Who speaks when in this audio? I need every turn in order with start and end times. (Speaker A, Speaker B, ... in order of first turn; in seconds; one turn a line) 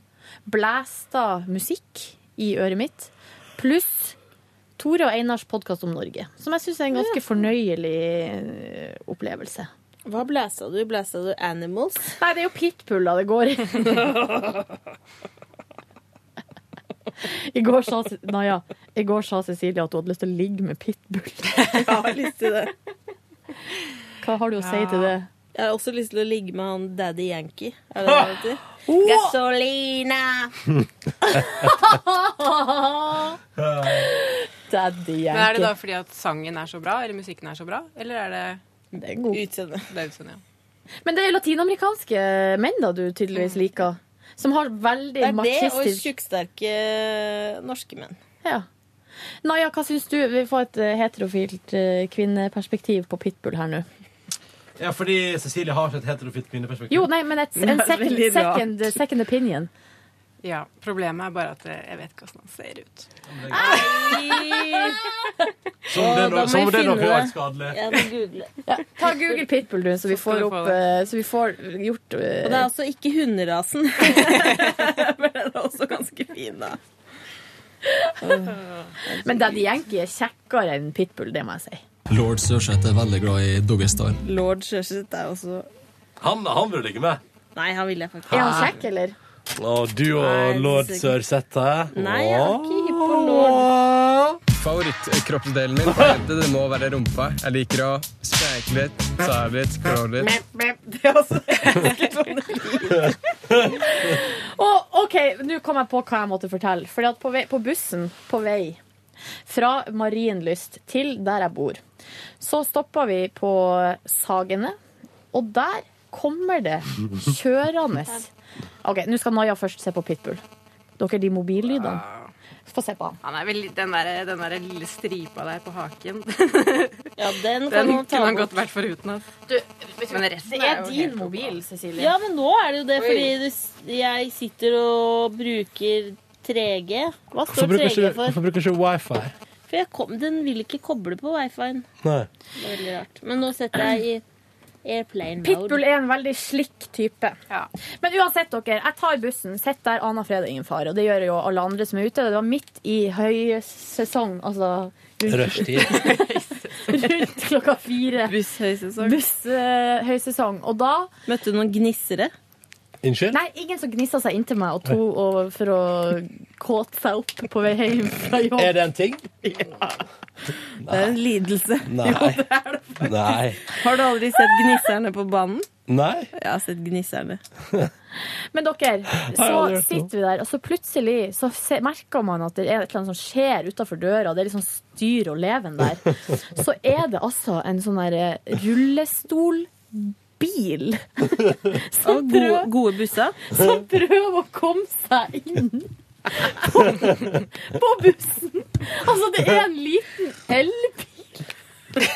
Speaker A: 0.5-4.2
Speaker A: 4.8-9.7
Speaker B: 10.1-12.2
Speaker A: 12.2-14.5
Speaker A: 17.3-21.9
Speaker B: 21.7-22.7
Speaker A: 24.2-25.3
Speaker C: 24.6-25.1
Speaker B: 25.6-30.5
Speaker A: 28.9-29.4
Speaker A: 31.3-33.4
Speaker D: 33.6-34.1
Speaker A: 33.9-35.7
Speaker C: 35.3-38.6
Speaker A: 38.9-39.4
Speaker B: 39.3-39.9
Speaker C: 39.9-40.4
Speaker A: 41.0-46.1
Speaker B: 45.2-48.2
Speaker A: 49.4-53.9
Speaker D: 54.8-57.1
Speaker A: 56.9-59.7
Speaker B: 57.6-58.9
Speaker C: 60.4-63.1
Speaker D: 63.3-63.8
Speaker A: 63.5-64.1
Speaker B: 63.5-65.0
Speaker D: 65.9-67.8
Speaker B: 65.9-68.5
Speaker A: 68.7-72.7
Speaker C: 70.1-70.8
Speaker B: 72.4-76.8
Speaker A: 77.9-78.5
Speaker B: 78.2-79.8
Speaker A: 79.2-81.8
Speaker E: 82.1-84.2
Speaker B: 84.2-85.7
Speaker D: 86.2-87.2
Speaker B: 87.6-88.8
Speaker A: 88.3-89.2
Speaker D: 88.3-88.7
Speaker D: 89.6-94.4
Speaker B: 90.2-91.2
Speaker B: 91.9-93.7
Speaker F: 94.5-100.3
Speaker D: 95.9-96.1
Speaker B: 101.2-103.2
Speaker A: 103.6-108.8
Speaker A: 109.5-111.8
Speaker A: 112.4-114.8
Speaker A: 115.3-118.3
Speaker A: 118.8-120.4
Speaker A: 121.0-122.0
Speaker C: 121.7-122.3
Speaker A: 122.7-123.2
Speaker C: 123.2-127.1
Speaker B: 127.2-128.6
Speaker C: 127.7-129.5
Speaker A: 129.5-132.1
Speaker C: 130.1-131.6
Speaker B: 132.0-138.4
Speaker C: 133.0-133.3
Speaker D: 137.5-139.3
Speaker B: 139.7-141.9
Speaker D: 142.0-142.3
Speaker B: 142.6-144.2
Speaker B: 144.8-145.8
Speaker A: 145.4-147.4
Speaker A: 148.0-158.4
Speaker D: 155.3-156.1
Speaker C: 156.0-156.9
Speaker B: 158.3-159.2
Speaker A: 159.0-161.1
Speaker B: 161.3-162.3
Speaker D: 163.0-163.4
Speaker A: 163.3-168.7
Speaker D: 168.6-169.3
Speaker D: 170.8-171.2
Speaker B: 170.8-173.1
Speaker D: 171.9-172.4
Speaker D: 173.0-173.6
Speaker B: 173.7-175.7
Speaker D: 175.9-176.3
Speaker B: 176.4-177.4
Speaker A: 178.5-192.7
Speaker D: 179.3-179.7
Speaker B: 192.0-193.4
Speaker A: 193.5-201.5